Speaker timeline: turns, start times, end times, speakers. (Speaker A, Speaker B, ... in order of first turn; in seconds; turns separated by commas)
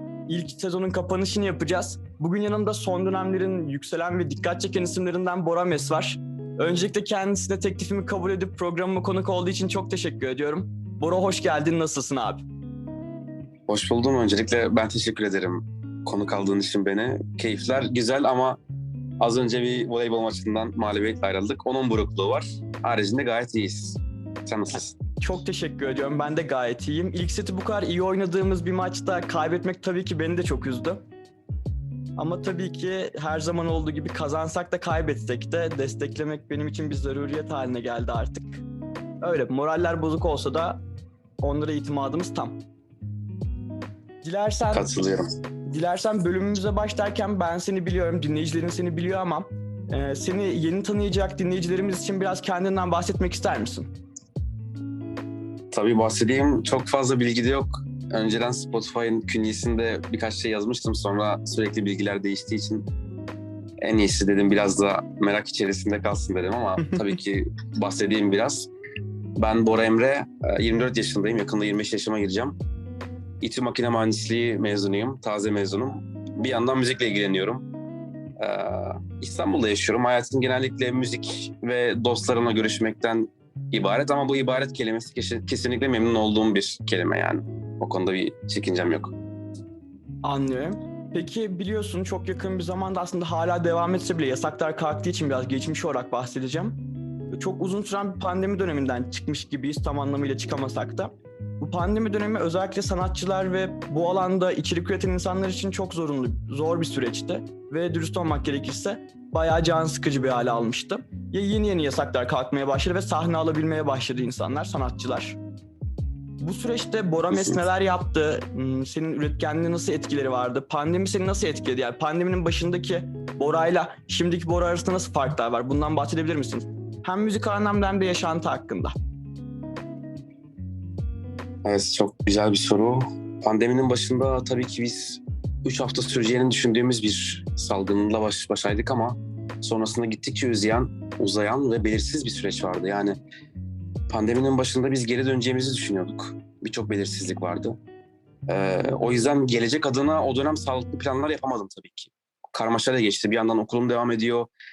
Speaker A: 0.3-12.4, Speaker B: 13.7-18.6, Speaker B: 19.2-25.0, Speaker A: 25.2-31.0, Speaker A: 32.2-38.6, Speaker A: 39.2-40.8, Speaker A: 41.4-42.6, Speaker A: 44.2-44.9, Speaker B: 44.7-45.3, Speaker A: 45.7-53.9, Speaker B: 55.7-62.9, Speaker B: 63.8-68.7, Speaker B: 69.4-72.6, Speaker B: 73.4-77.7, Speaker B: 78.4-89.1, Speaker A: 90.2-96.8, Speaker A: 97.3-115.4, Speaker A: 116.4-129.0, Speaker B: 117.3-117.6, Speaker B: 131.6-143.2, Speaker B: 144.1-147.8, Speaker B: 148.5-154.5